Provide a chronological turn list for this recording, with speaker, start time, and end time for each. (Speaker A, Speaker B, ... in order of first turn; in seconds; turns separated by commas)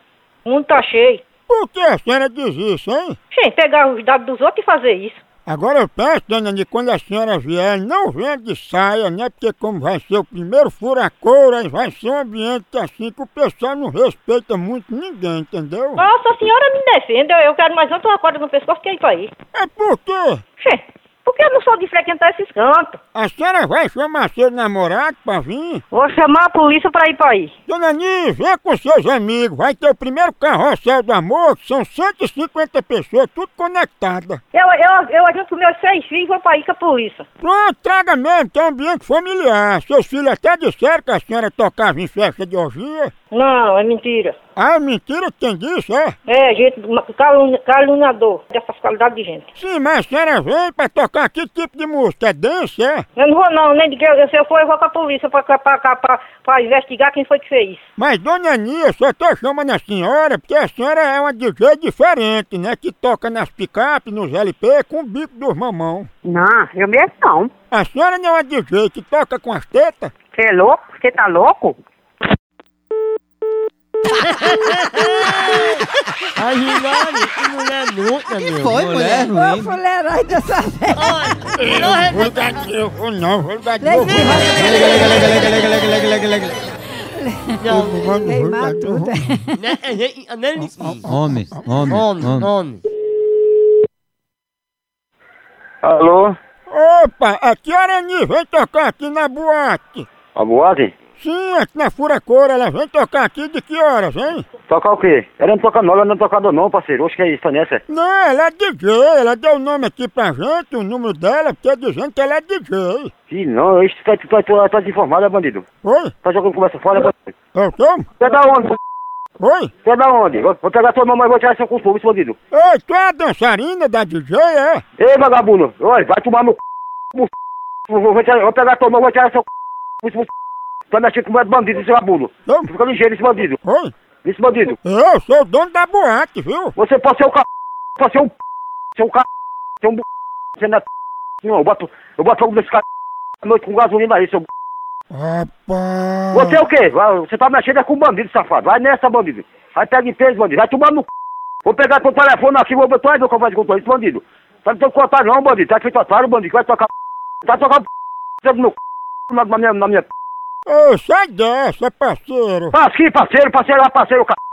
Speaker A: 0.4-1.2, Speaker B: 1.5-3.2, Speaker A: 3.3-5.2, Speaker B: 5.5-16.0, Speaker A: 16.0-19.3, Speaker B: 19.5-20.4, Speaker A: 20.6-23.0, Speaker B: 23.1-25.8, Speaker A: 25.9-27.5, Speaker B: 27.7-34.4, Speaker A: 34.5-37.2, Speaker B: 37.4-43.1, Speaker A: 43.3-44.4, Speaker B: 44.5-46.1, Speaker A: 46.3-49.5, Speaker B: 49.5-53.0, Speaker A: 53.2-57.8, Speaker B: 58.0-66.1, Speaker C: 66.2-67.5, Speaker B: 67.7-70.1, Speaker C: 70.3-71.8, Speaker D: 74.4-75.8, Speaker D: 76.3-78.8, Speaker E: 78.6-81.1, Speaker F: 78.7-79.8, Speaker D: 80.9-82.3, Speaker B: 81.5-85.4, Speaker E: 83.8-85.1, Speaker D: 84.6-86.5, Speaker E: 87.2-87.6, Speaker D: 87.6-88.0, Speaker B: 87.7-89.2, Speaker E: 88.2-89.6, Speaker D: 89.5-91.1, Speaker F: 91.0-92.5, Speaker D: 91.9-92.8, Speaker G: 95.8-96.3, Speaker B: 96.7-100.1, Speaker G: 100.3-100.9, Speaker B: 101.2-104.5, Speaker G: 104.7-107.8, Speaker B: 107.9-113.1, Speaker G: 113.3-115.6, Speaker B: 115.8-116.1, Speaker G: 116.2-117.3, Speaker B: 117.5-118.1, Speaker G: 118.2-118.8, Speaker B: 119.4-119.7, Speaker G: 119.8-122.3, Speaker B: 122.5-124.8, Speaker G: 125.0-126.6, Speaker G: 127.9-129.4, Speaker G: 130.0-130.3, Speaker G: 130.9-133.6, Speaker B: 132.4-132.7, Speaker B: 133.6-133.9, Speaker G: 134.2-134.8, Speaker B: 134.8-136.7, Speaker G: 136.8-137.4, Speaker G: 138.0-138.3, Speaker G: 138.9-139.2, Speaker G: 140.6-140.8, Speaker G: 141.4-142.8, Speaker G: 143.4-144.5, Speaker B: 145.1-146.6, Speaker G: 146.3-151.1, Speaker G: 151.6-156.9, Speaker G: 157.4-157.8, Speaker G: 158.4-158.8, Speaker G: 159.3-160.1, Speaker B: 160.7-162.7, Speaker G: 162.7-164.4